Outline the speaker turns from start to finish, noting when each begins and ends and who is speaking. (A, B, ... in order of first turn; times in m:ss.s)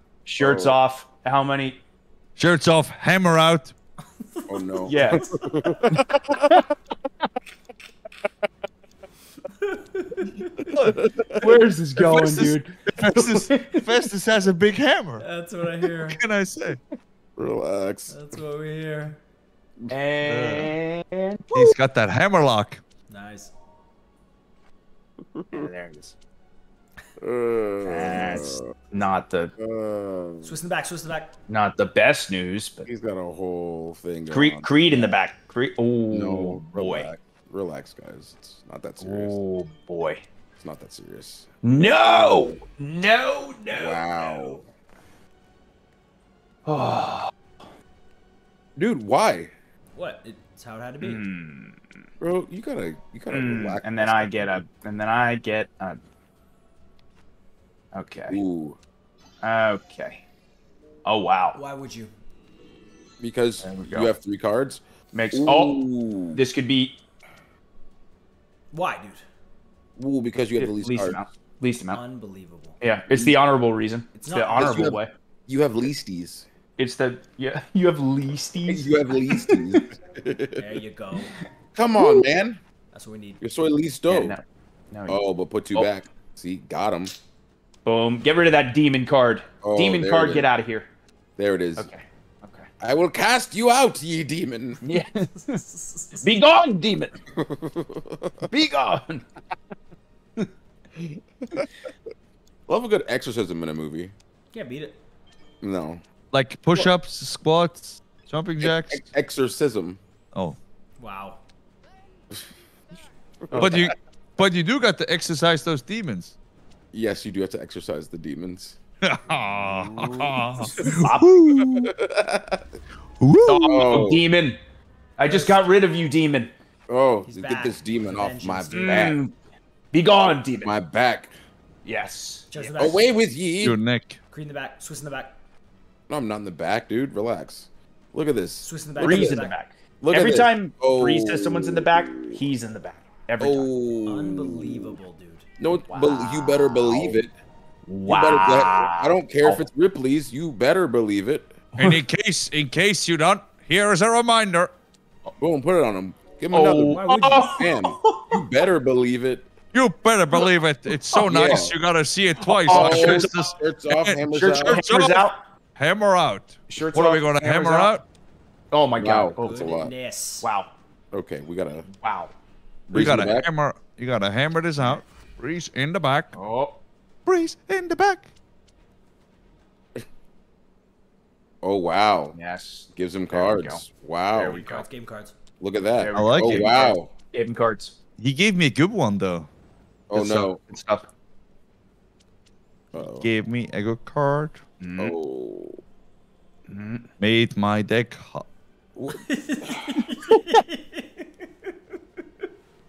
0:00.3-0:01.8 A
0:00.4-0:00.8 B
0:02.4-0:03.7 C
0:04.2-0:05.6 D
0:04.5-0:06.5 B
0:04.9-0:05.2 A
0:06.4-0:06.7 A
0:09.5-0:10.7 D
0:10.7-0:11.1 C
0:11.0-0:11.6 B
0:11.4-0:14.1 A
0:12.0-0:15.2 C
0:15.2-0:16.2 D
0:16.1-0:16.8 C
0:17.4-0:18.2 B
0:18.1-0:19.2 D
0:19.9-0:21.7 A
0:20.2-0:20.7 C
0:21.5-0:22.8 C
0:23.1-0:23.5 D
0:25.3-0:25.7 B
0:25.5-0:26.2 A
0:27.2-0:28.8 B
0:27.8-0:29.5 A
0:29.6-0:30.6 B
0:30.4-0:31.3 D
0:31.5-0:32.9 A
0:32.8-0:35.2 B
0:34.3-0:37.1 A
0:36.1-0:39.4 B
0:39.0-0:40.2 A
0:40.6-0:42.6 B
0:41.6-0:44.6 A
0:43.7-0:44.6 B
0:46.7-0:47.3 A
0:48.8-0:49.5 B
0:50.0-0:51.2 D
0:51.0-0:51.8 A
0:52.2-0:54.6 B
0:53.3-0:56.0 A
0:57.9-0:58.4 A
0:58.3-0:58.8 B
0:59.4-1:00.2 A
1:01.0-1:01.6 A
1:01.6-1:02.1 D
1:03.2-1:06.4 B
1:03.6-1:04.1 A
1:05.1-1:07.0 A
1:08.7-1:09.2 D
1:10.0-1:11.2 B
1:10.6-1:12.0 A
1:11.9-1:12.8 D
1:12.8-1:15.1 A
1:14.1-1:14.9 D
1:14.6-1:16.5 B
1:16.8-1:19.8 A
1:18.7-1:20.6 B
1:20.6-1:21.3 D
1:21.8-1:22.6 B
1:22.0-1:22.2 A
1:22.9-1:23.4 D
1:23.4-1:24.4 B
1:24.1-1:25.2 A
1:25.1-1:27.1 B
1:27.9-1:30.9 A
1:29.6-1:30.5 B
1:31.4-1:31.9 B
1:31.8-1:32.7 A
1:32.8-1:34.8 B
1:34.8-1:35.6 A
1:35.5-1:36.3 D
1:36.2-1:37.2 A
1:37.3-1:38.5 B
1:38.4-1:39.3 A
1:42.7-1:44.1 B
1:44.5-1:45.0 D
1:45.6-1:46.0 B
1:46.3-1:49.0 C
1:48.6-1:50.0 B
1:50.3-1:50.6 C
1:51.0-1:51.4 D
1:53.4-1:53.9 B
1:53.5-1:53.9 A
1:53.6-1:56.4 C
1:56.9-1:58.8 B
1:59.0-2:01.9 C
1:59.6-2:00.4 B
1:59.9-2:01.6 A
2:01.6-2:02.7 B
2:03.2-2:04.1 C
2:03.4-2:04.6 A
2:03.7-2:04.3 B
2:05.2-2:06.5 A
2:05.3-2:05.7 D
2:06.9-2:09.2 B
2:07.3-2:09.2 D
2:08.7-2:09.3 A
2:09.9-2:10.8 A
2:10.6-2:11.3 B
2:11.8-2:12.7 A
2:12.5-2:13.1 D
2:12.8-2:13.8 B
2:13.6-2:14.2 C
2:14.3-2:15.4 D
2:16.1-2:19.4 B
2:18.6-2:19.6 D
2:19.0-2:23.7 A
2:20.0-2:22.4 B
2:23.4-2:25.0 B
2:24.1-2:25.5 D
2:25.6-2:27.3 B
2:25.9-2:27.2 A
2:27.9-2:29.6 A
2:28.1-2:31.6 B
2:31.8-2:34.7 C
2:35.4-2:39.5 B
2:36.5-2:38.4 A
2:36.7-2:37.7 D
2:39.7-2:48.0 C
2:41.1-2:41.6 A
2:41.2-2:41.8 B
2:42.4-2:43.5 A
2:42.7-2:44.8 B
2:44.4-2:45.4 A
2:46.7-2:48.0 A
2:48.7-2:49.7 A
2:49.0-2:49.9 B
2:49.4-2:50.5 D
2:50.4-2:50.7 A
2:51.1-2:51.9 B
2:51.9-2:52.3 A
2:52.9-2:53.5 B
2:52.9-2:56.3 C
2:56.3-2:56.8 A
2:57.3-2:58.3 C
3:01.6-3:02.4 B
3:02.4-3:03.8 A
3:03.0-3:04.6 B
3:04.4-3:04.8 A
3:04.4-3:05.3 D
3:05.6-3:07.1 B
3:06.0-3:08.0 A
3:06.1-3:06.7 C
3:08.2-3:09.5 C
3:10.1-3:10.6 B
3:10.1-3:10.5 C
3:10.6-3:11.1 A
3:12.9-3:13.3 B
3:13.2-3:14.6 C
3:14.8-3:15.2 A
3:15.0-3:15.8 B
3:16.7-3:17.1 A
3:17.2-3:18.5 C
3:19.0-3:20.0 B
3:19.2-3:21.3 D